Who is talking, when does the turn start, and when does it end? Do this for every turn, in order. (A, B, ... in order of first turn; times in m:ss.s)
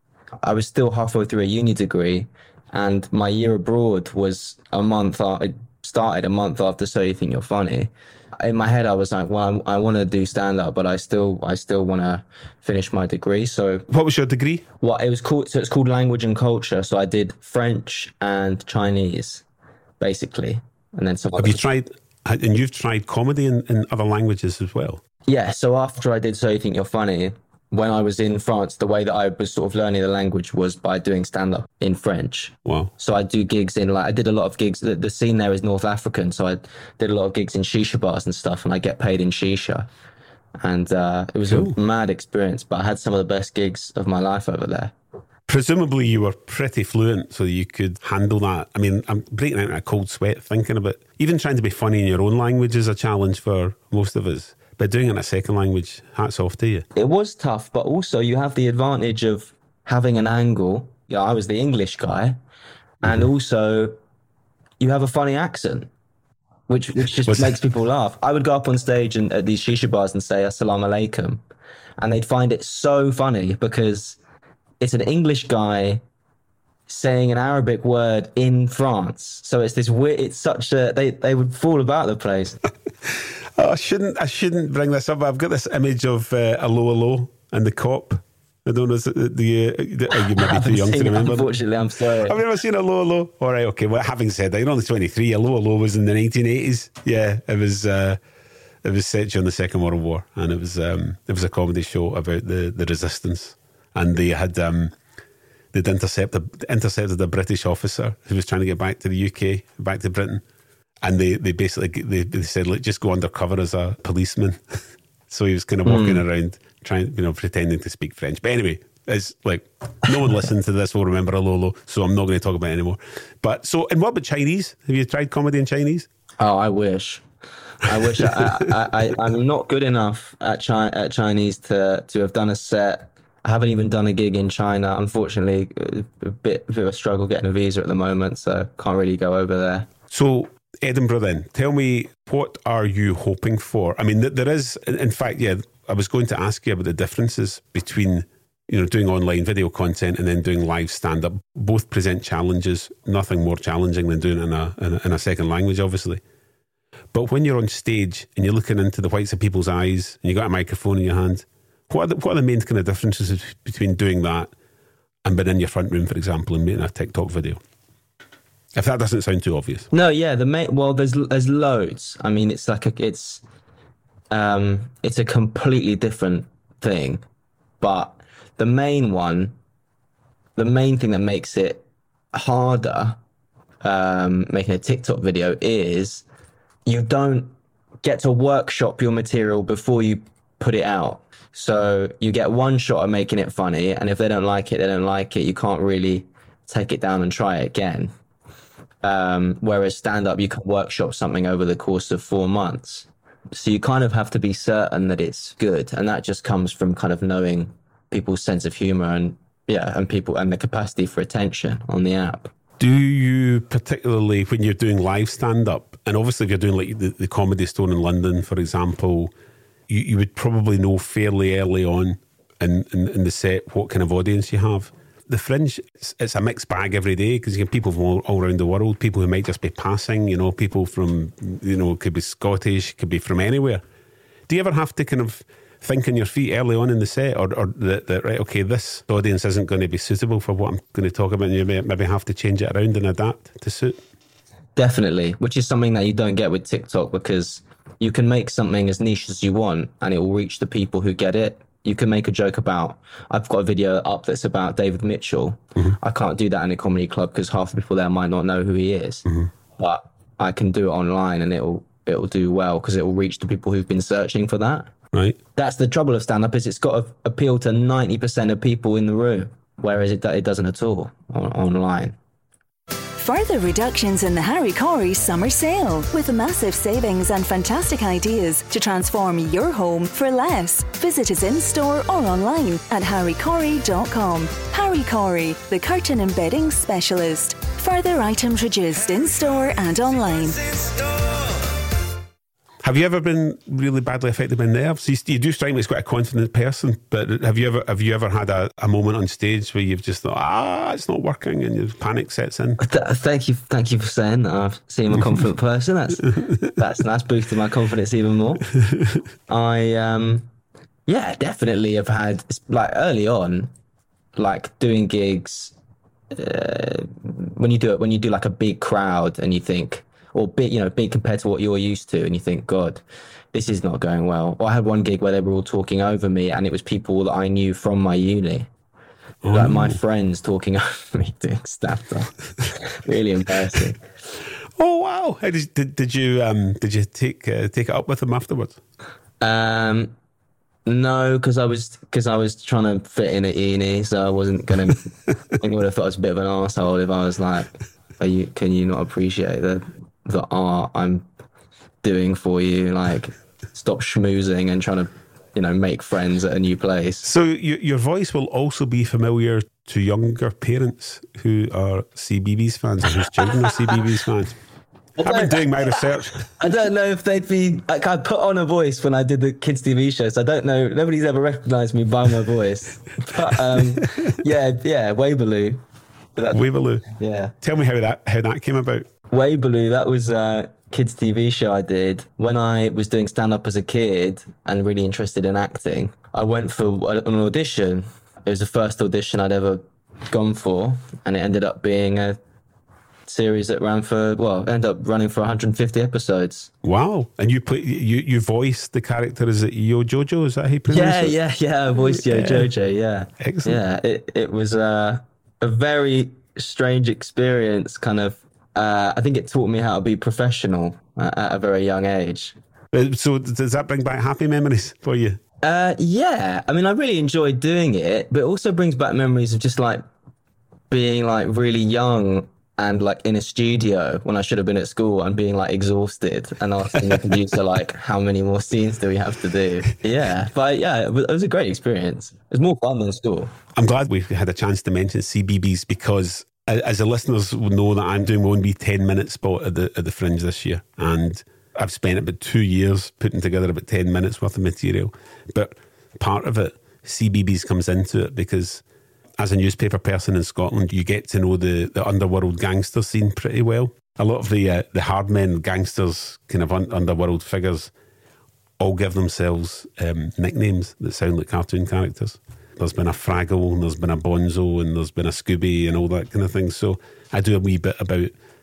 0:00.4-0:13.9 A
0:13.9-0:14.6 B
0:14.8-0:19.4 A
0:20.0-0:21.6 A
0:21.4-0:25.0 B
0:25.3-0:39.9 A
0:32.6-0:32.9 B
0:40.6-0:44.9 A
0:41.5-0:41.7 B
0:45.5-0:56.9 B
0:56.9-1:02.4 A
1:03.0-1:03.9 A
1:04.8-1:05.9 A
1:06.7-1:11.4 A
1:07.2-1:07.6 B
1:12.0-1:14.2 A
1:14.8-1:16.0 A
1:16.9-1:22.6 A
1:23.6-1:31.5 B
1:30.2-1:32.4 A
1:32.2-1:38.2 B
1:38.8-1:44.9 B
1:45.7-1:50.4 B
1:51.0-2:06.1 B
1:55.8-1:56.2 A
2:06.4-2:07.2 A
2:07.8-2:19.9 A
2:08.2-2:08.5 B
2:20.1-2:36.2 B
2:37.1-2:44.5 B
2:45.2-2:47.6 B
2:48.7-2:49.9 B
2:49.9-2:53.4 A
2:54.3-2:57.2 A
2:57.8-2:59.5 A
3:00.6-3:03.2 A
3:03.8-3:06.2 A
3:06.8-3:07.5 A
3:08.0-3:18.1 A
3:19.0-3:32.5 A
3:32.8-3:39.3 B
3:39.9-3:53.8 B
3:54.5-4:04.0 B
4:04.8-4:19.2 A
4:19.8-4:24.9 A
4:25.6-4:32.2 A
4:33.2-4:50.6 C
4:50.9-4:51.4 A
4:52.8-5:02.8 B
5:02.8-5:08.6 A
5:06.4-5:06.7 B
5:09.5-5:10.5 A
5:11.1-5:13.7 A
5:14.4-5:15.7 A
5:16.3-5:28.7 A
5:29.4-5:30.0 B
5:29.5-5:34.0 A
5:34.8-5:38.8 B
5:39.4-5:40.1 A
5:40.8-5:51.2 A
5:52.0-5:57.3 A
5:57.2-6:04.5 B
6:05.2-6:15.8 A
6:05.2-6:06.5 B
6:16.4-6:16.6 A
6:16.5-6:17.0 B
6:17.2-6:17.5 A
6:17.6-6:19.1 B
6:19.3-6:32.4 A
6:33.3-6:36.7 A
6:36.8-6:41.4 B
6:40.9-6:52.5 A
6:42.1-6:42.7 B
6:43.4-6:43.8 B
6:52.9-6:55.4 B
6:55.6-7:00.0 A
7:00.9-7:13.5 A
7:06.9-7:07.4 B
7:13.7-7:28.8 B
7:29.4-7:37.9 B
7:38.8-7:48.3 B